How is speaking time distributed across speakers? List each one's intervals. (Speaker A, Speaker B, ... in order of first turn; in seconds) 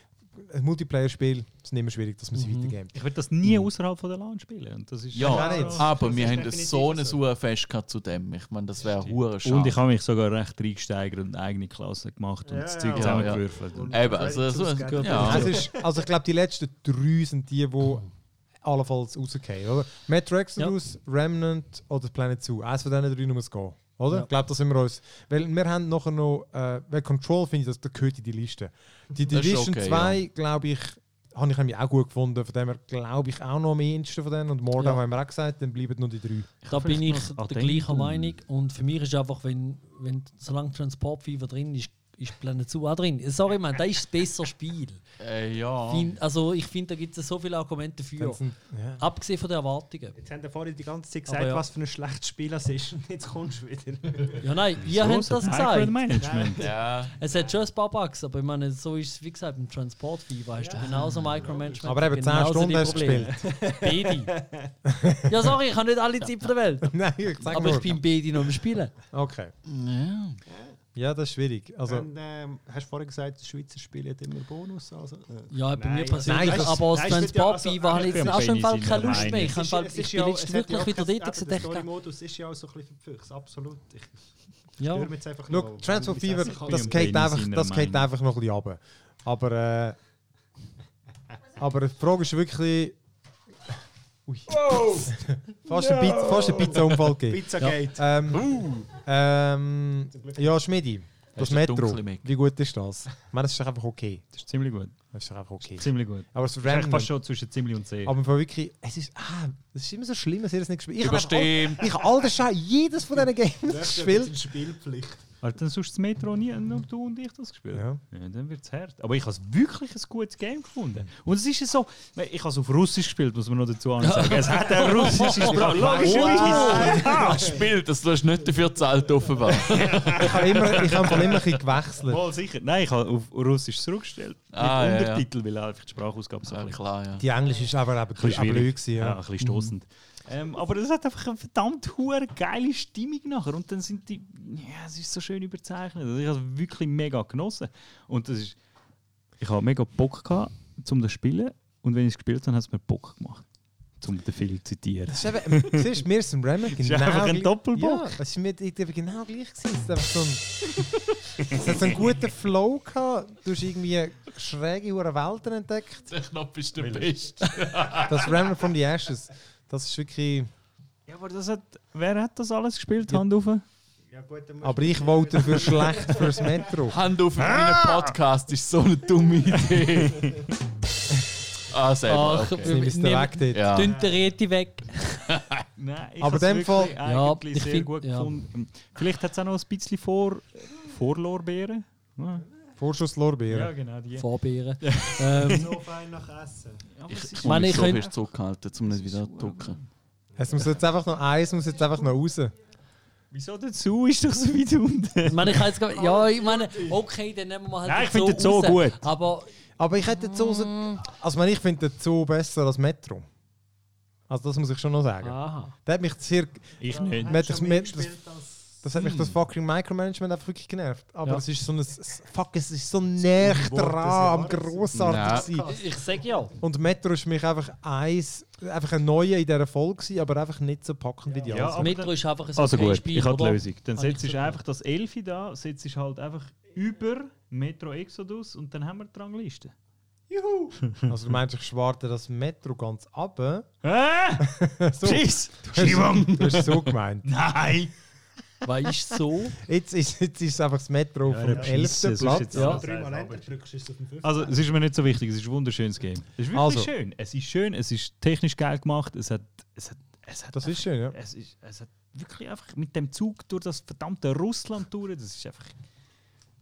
Speaker A: 0.3-3.0, 5.2-5.9, 15.2-18.1, 18.6-36.5, 48.2-49.0, 61.9-63.4, 64.9-65.4, 66.8-68.0, 69.1-69.5, 71.0-72.1, 76.2-77.3, 85.5-90.0, 91.6-93.0, 94.3-104.2, 105.1-107.1, 108.0-114.3, 117.7-118.0, 125.6-127.1, 130.2-132.2, 137.2-139.2, 155.1-160.4, 161.4-166.1, 167.9-170.5, 174.6-177.0, 182.6-183.8, 186.2-187.0, 192.8-193.7, 200.4-202.5, 209.8-213.3, 214.3-218.2, 218.8-225.7, 226.6-231.9, 241.1-243.7, 244.4-247.3, 249.6-252.8, 256.5-256.9, 260.5-261.2
Speaker B: 2.3-2.8, 36.7-45.0, 45.9-48.4, 49.0-50.2, 51.3-51.6, 54.4-56.0, 57.2-64.4, 65.3-68.9, 75.5-81.9, 84.8-85.1, 124.0-127.1, 182.1-185.4, 187.0-188.3, 194.2-195.8, 197.4-198.1, 205.3-209.6, 210.1-211.0, 215.2-215.8, 225.7-226.6, 231.8-234.6, 248.6-249.6, 252.5-252.8
Speaker C: 2.9-6.2, 8.8-14.0, 36.6-38.4, 54.8-56.7, 77.9-79.6, 86.5-88.0, 94.7-95.0, 95.7-96.9, 104.3-105.0, 105.8-108.2, 115.4-127.5, 130.7-131.4, 132.0-136.8, 138.2-148.6, 149.4-153.4, 154.0-155.9, 156.7-158.1, 161.4-161.7, 166.8-167.6, 171.1-173.6, 177.4-178.1, 179.8-180.5, 185.8-192.5, 193.5-195.6, 196.9-199.9, 203.3-205.8, 207.8-209.1, 216.8-217.4, 231.5-239.7, 240.8-241.2, 243.8-247.9, 251.2-253.5, 254.2-265.8
Speaker D: 5.1-9.8, 12.9-15.6, 29.3-30.2, 45.2-46.1, 56.6-57.1, 60.8-61.1, 69.7-70.4, 98.3-98.9, 101.4-102.3, 111.0-112.0, 127.0-131.0, 134.5-135.3, 136.5-137.3, 166.1-168.5, 176.9-180.4, 181.7-182.7, 183.5-183.9, 197.1-199.8, 219.0-219.3, 224.9-225.5
Speaker E: 5.2-7.2, 12.5-15.9, 50.2-54.5, 56.1-57.6, 60.6-62.0, 63.1-64.7, 70.5-70.8, 71.9-84.2, 84.8-87.1, 96.7-98.2, 113.6-115.2, 125.5-127.7, 129.6-130.5, 174.1-176.8, 183.8-184.3, 195.4-196.9, 205.9-207.0, 216.9-218.8, 223.2-226.0, 231.3-231.7, 240.3-240.8, 251.5-254.6